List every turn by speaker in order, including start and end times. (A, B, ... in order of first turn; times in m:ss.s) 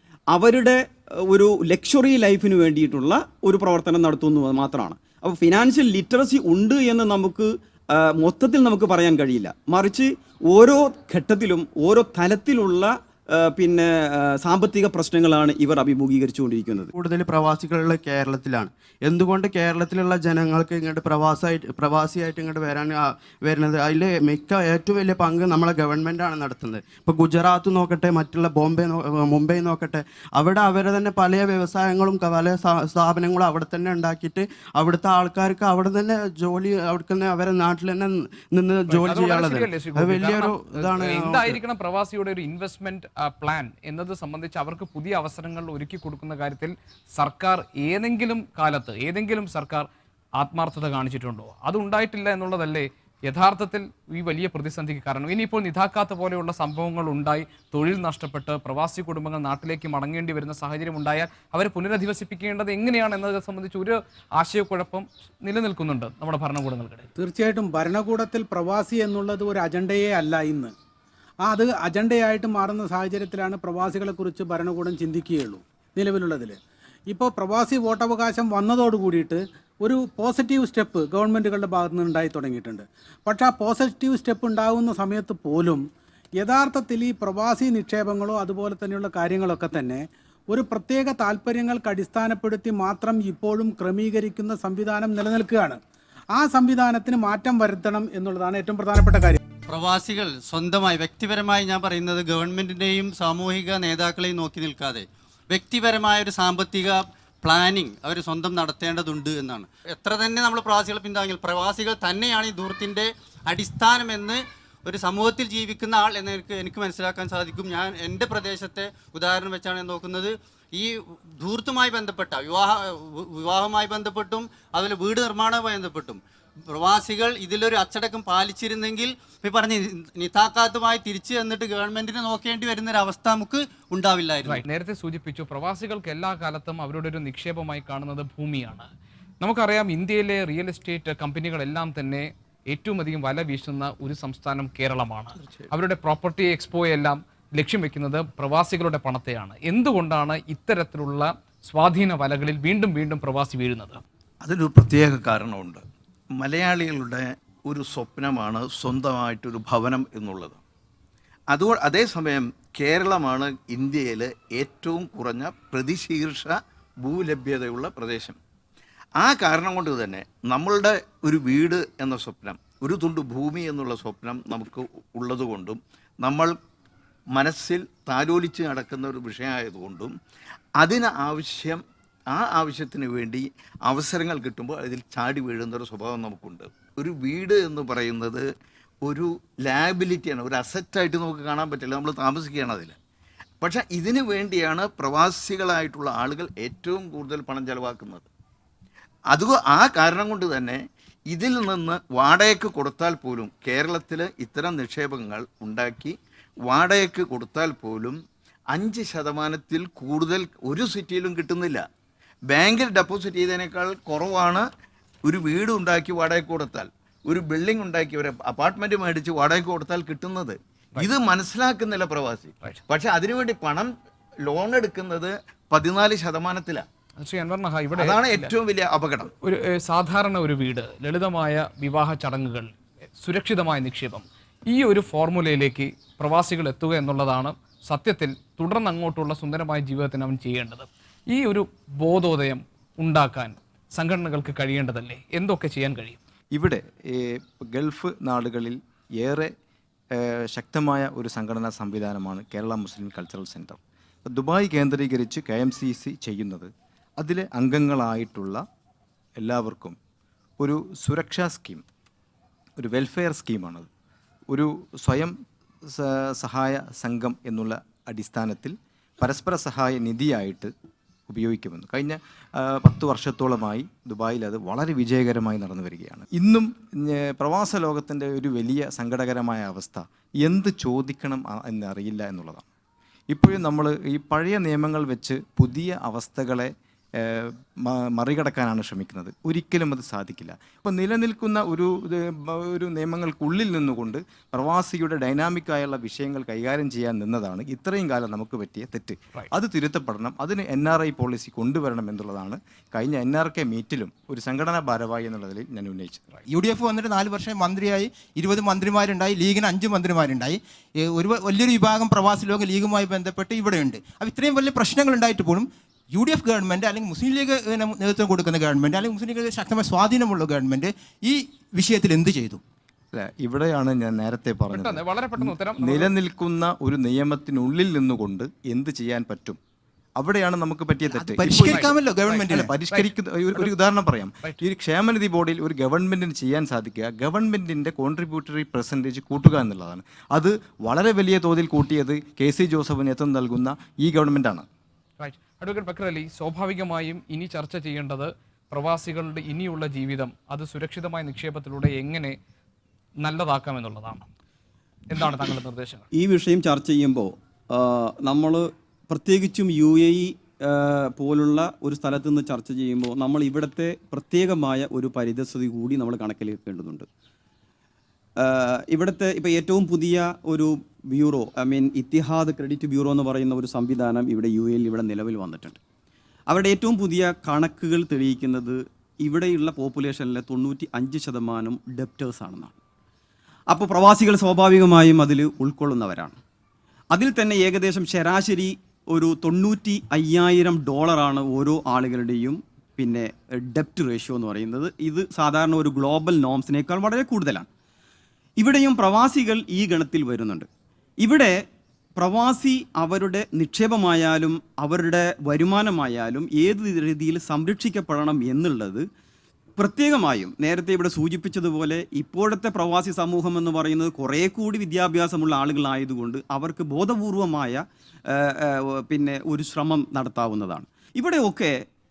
0:00.3-0:16.9 A
0:16.9-0:41.6 B
0:38.9-0:49.9 C
0:50.4-1:07.1 C
1:07.2-1:10.7 D
1:11.4-1:16.6 D
1:17.1-1:25.8 D
1:26.4-1:35.8 D
1:36.4-1:39.4 D
1:39.7-2:14.6 E
2:14.4-2:18.9 C
2:19.4-2:34.0 C
2:25.4-2:25.7 F
2:34.4-2:35.8 F
2:36.4-2:40.6 F
2:41.5-2:48.4 F
2:49.2-2:56.5 F
2:57.3-3:00.1 F
3:00.8-3:08.4 F
3:09.0-3:13.0 F
3:13.6-3:18.2 F
3:19.3-3:26.1 F
3:26.7-3:28.2 F
3:28.7-3:31.8 F
3:32.5-3:34.6 F
3:35.2-3:43.9 F
3:44.4-3:46.8 F
3:47.2-3:48.5 C
3:48.0-3:49.3 F
3:49.4-4:06.2 C
4:06.5-4:09.5 G
4:10.1-4:18.6 G
4:19.4-4:20.0 G
4:20.6-4:21.8 G
4:22.8-4:23.9 G
4:24.5-4:30.7 G
4:31.3-4:42.6 G
4:43.3-5:06.2 G
5:06.5-5:10.6 H
5:11.1-5:22.6 H
5:23.1-5:29.6 G
5:24.7-5:26.1 C
5:30.2-5:44.7 G
5:31.2-5:32.7 H
5:31.3-5:33.7 C
5:45.2-5:52.4 C
5:53.2-5:54.3 C
5:55.1-5:56.0 C
5:56.1-6:07.1 A
6:08.4-6:15.8 A
6:16.5-6:22.7 A
6:23.7-6:26.4 A
6:27.1-6:37.7 A
6:38.6-6:40.7 A
6:41.2-6:41.6 A
6:42.2-6:49.1 A
6:49.8-7:01.8 A